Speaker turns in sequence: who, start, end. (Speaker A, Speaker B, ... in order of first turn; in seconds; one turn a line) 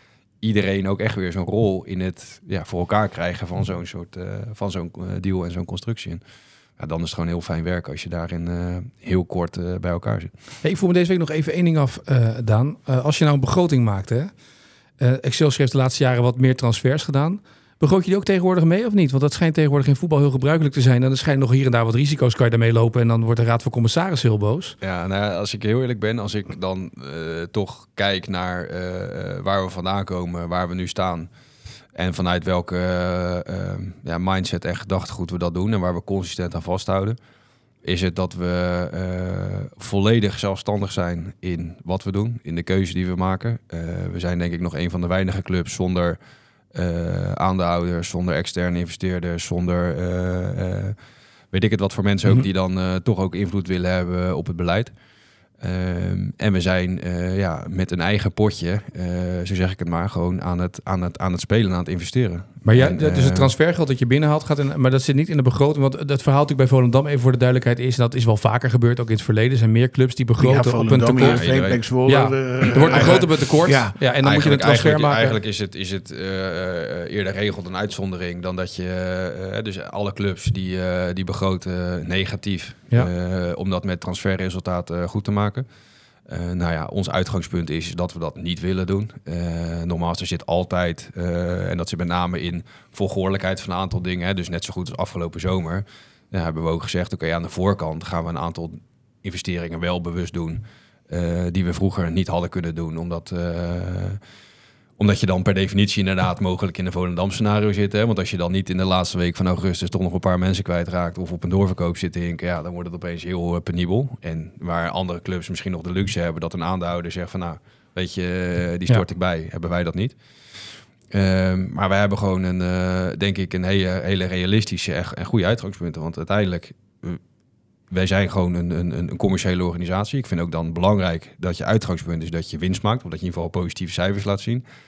Speaker A: 0.4-6.2
Speaker A: 6.8-10.3
Speaker B: 10.6-14.3
Speaker B: 15.0-24.8
Speaker A: 24.8-31.3
Speaker A: 31.9-37.2
Speaker A: 37.8-46.2
Speaker A: 46.7-51.0
Speaker A: 51.5-54.9
Speaker A: 55.6-63.5
Speaker B: 62.6-71.4
Speaker C: 70.4-74.0
Speaker A: 71.2-71.8
Speaker B: 72.1-75.4
Speaker A: 72.6-73.3
Speaker A: 74.2-85.7
Speaker A: 86.3-104.2
Speaker A: 105.0-127.2
Speaker A: 127.9-134.6